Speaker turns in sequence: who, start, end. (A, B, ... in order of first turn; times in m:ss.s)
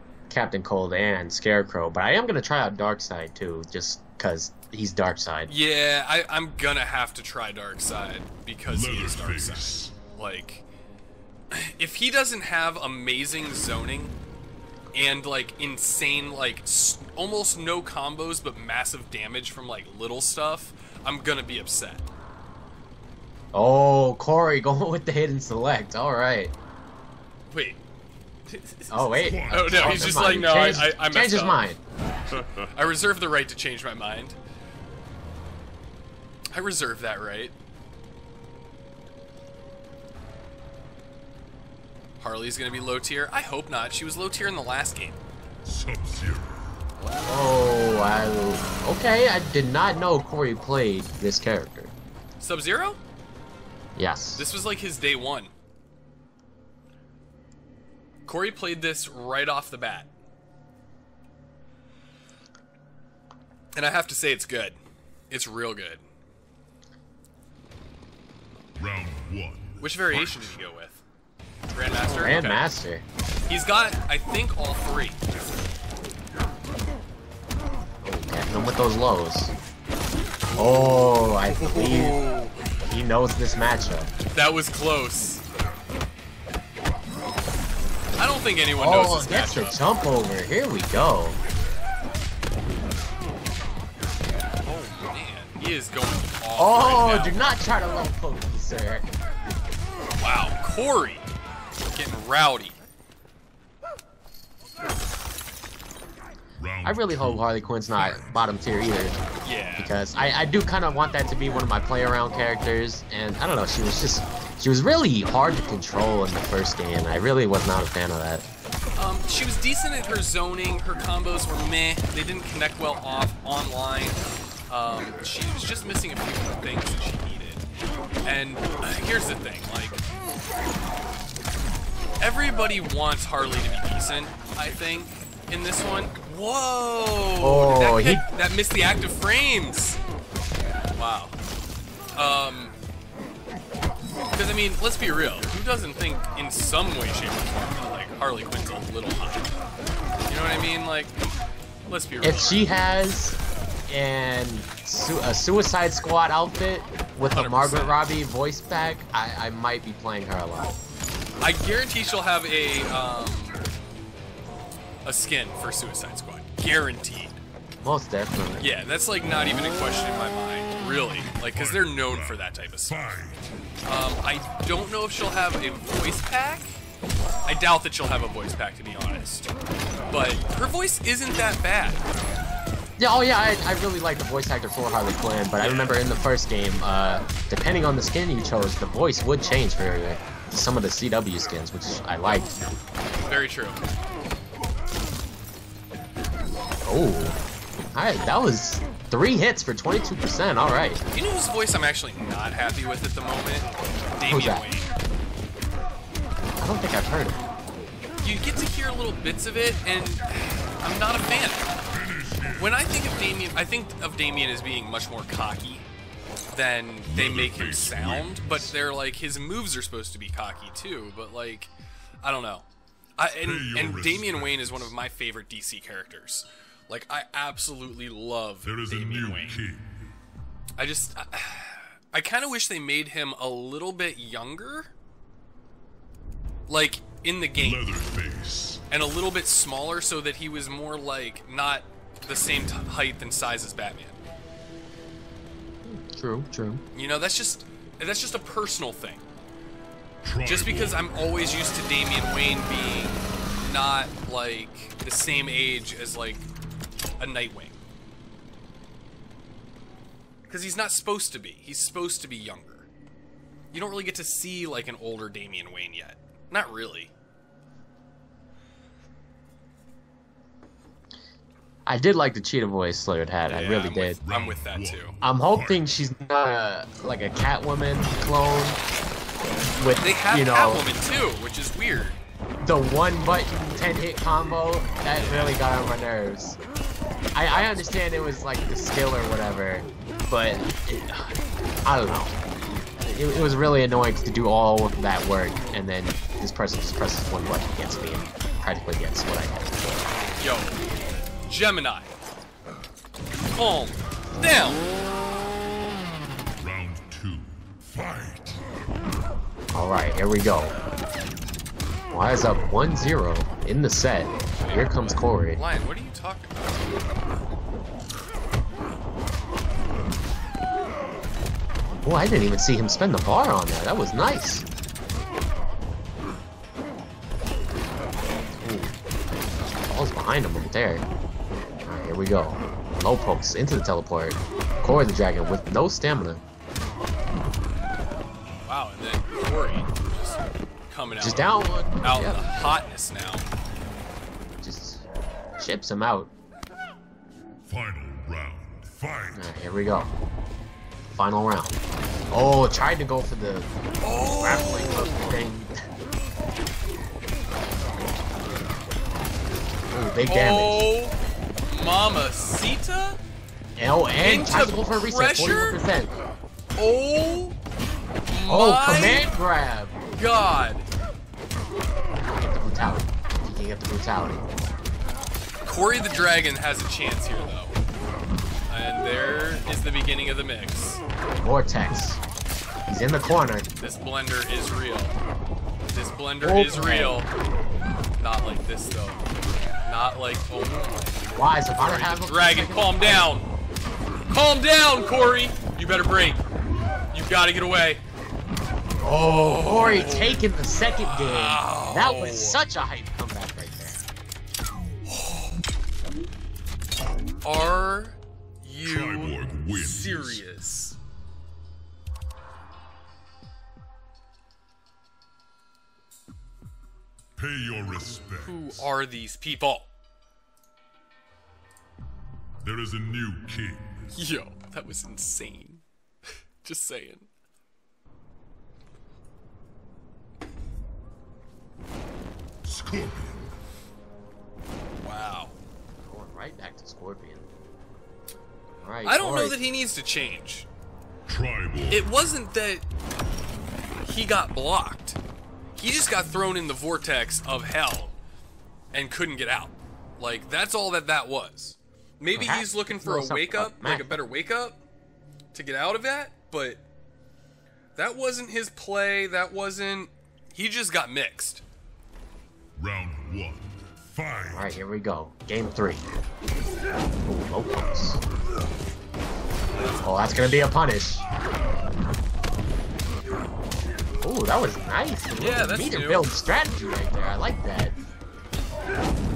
0:00.3-0:05.5 A
0:05.5-0:10.7 B
0:08.7-0:10.0 C
0:11.5-0:14.2 B
0:14.9-0:22.1 B
0:23.5-0:26.5 A
0:27.5-0:27.8 B
0:28.5-0:31.7 B
0:28.9-0:31.8 A
0:29.2-0:30.6 C
0:32.3-0:34.4 B
0:36.5-0:37.5 B
0:42.2-0:45.2 B
0:45.6-0:46.8 C
0:47.3-0:51.9 A
0:52.4-0:53.0 B
0:54.0-0:54.5 A
0:54.4-0:55.5 B
0:58.3-1:00.1 B
1:03.8-1:04.8 B
1:05.3-1:06.0 B
1:08.8-1:10.6 C
1:09.8-1:11.0 B
1:11.7-1:12.7 B
1:12.1-1:13.0 A
1:13.5-1:15.2 B
1:18.0-1:19.5 A
1:20.6-1:22.2 A
1:20.6-1:22.6 B
1:22.9-1:24.1 A
1:24.3-1:25.4 B
1:28.2-1:29.8 B
1:28.8-1:31.4 A
1:34.6-1:37.4 B
1:36.6-1:39.1 A
1:40.2-1:41.3 B
1:41.9-1:42.8 B
1:46.6-1:48.4 C
1:46.8-1:49.2 A
1:49.4-1:49.9 B
1:49.8-1:58.5 A
1:59.0-2:07.6 B
2:08.2-2:10.0 B
2:12.2-2:20.0 B
2:17.4-2:18.3 A
2:21.0-2:21.4 B
2:22.1-2:22.8 B
2:24.3-2:29.5 B
2:30.3-2:31.2 B
2:31.9-2:32.7 B
2:32.2-2:33.4 A
2:33.9-2:40.8 A
2:37.3-2:38.1 B
2:41.4-2:43.7 B
2:45.0-2:47.4 B
2:47.8-2:48.7 A
2:48.6-2:53.2 B
2:51.5-2:53.5 C
2:53.8-2:56.8 B
2:57.5-2:59.5 B
3:00.1-3:02.1 B
3:03.0-3:12.7 A
3:05.6-3:06.0 B
3:13.3-3:13.8 B
3:16.9-3:17.4 A
3:18.0-3:21.0 A
3:21.1-3:25.0 B
3:24.3-3:24.6 A
3:26.6-3:27.4 A
3:28.2-3:31.7 B
3:31.9-3:32.8 C
3:32.6-3:35.9 B
3:36.5-3:41.7 B
3:37.0-3:38.8 C
3:42.2-3:42.7 B
3:43.2-3:49.6 B
3:43.4-3:44.9 C
3:48.6-3:50.0 C
3:50.8-3:54.9 B
3:56.7-3:58.0 B
3:57.6-3:58.8 C
3:58.9-4:04.2 B
4:05.8-4:06.8 A
4:06.9-4:09.2 B
4:10.2-4:11.2 C
4:10.4-4:16.5 B
4:17.2-4:17.8 B
4:20.5-4:22.9 B
4:23.7-4:27.1 B
4:31.9-4:34.2 A
4:33.5-4:35.2 B
4:34.2-4:36.1 C
4:35.2-4:38.8 A
4:39.8-4:40.9 A
4:40.0-4:42.2 B
4:42.6-4:46.6 A
4:45.2-4:45.6 B
4:47.4-4:52.4 A
4:47.5-4:47.9 B
4:53.0-4:59.8 A
5:00.4-5:00.8 B
5:01.4-5:02.2 B
5:03.5-5:04.9 B
5:06.6-5:08.6 C
5:09.7-5:10.8 A
5:12.1-5:15.6 A
5:14.6-5:16.9 B
5:21.9-5:24.7 A
5:28.6-5:28.9 A
5:29.8-5:31.0 A
5:31.8-5:36.4 A
5:38.6-5:43.5 B
5:41.2-5:42.5 A
5:44.6-5:45.0 A
5:45.6-5:46.3 A
5:47.7-5:49.5 C
5:49.4-5:50.1 A
5:51.1-5:51.8 A
5:52.3-5:55.9 A
5:54.0-5:55.4 B
5:59.9-6:00.9 A
6:00.3-6:03.2 B
6:03.8-6:06.2 A
6:04.2-6:05.8 B
6:06.8-6:07.6 B
6:08.3-6:09.3 B
6:08.5-6:10.0 A
6:10.1-6:10.9 B
6:12.4-6:14.5 A
6:15.6-6:17.8 B
6:18.7-6:21.0 B
6:21.4-6:22.2 A
6:22.9-6:23.7 A
6:23.8-6:25.2 B
6:25.9-6:27.3 B
6:26.4-6:27.2 A
6:28.2-6:33.5 B
6:31.3-6:33.3 A
6:34.3-6:36.4 B
6:37.1-6:38.0 B
6:39.0-6:44.0 A
6:39.4-6:40.5 B
6:41.0-6:42.6 B
6:45.1-6:45.5 B
6:47.4-6:51.0 B
6:48.8-6:50.4 C
6:57.4-6:58.9 C
6:58.4-6:59.9 B
7:02.6-7:04.1 C
7:04.1-7:05.8 B
7:06.6-7:07.3 B
7:12.6-7:13.5 C
7:15.0-7:15.6 B
7:16.0-7:17.5 A
7:18.8-7:19.6 A
7:19.0-7:20.7 B
7:21.3-7:22.1 C
7:21.9-7:22.8 B
7:24.0-7:25.2 B
7:25.8-7:28.2 B
7:28.9-7:34.8 B
7:32.3-7:34.2 A
7:35.5-7:36.8 B
7:38.0-7:41.6 B
7:42.8-7:44.8 C
7:44.5-7:46.0 A
7:47.2-7:48.2 A
7:49.7-7:50.7 B
7:50.0-7:51.2 A
7:54.2-7:58.0 A
7:55.4-7:56.3 B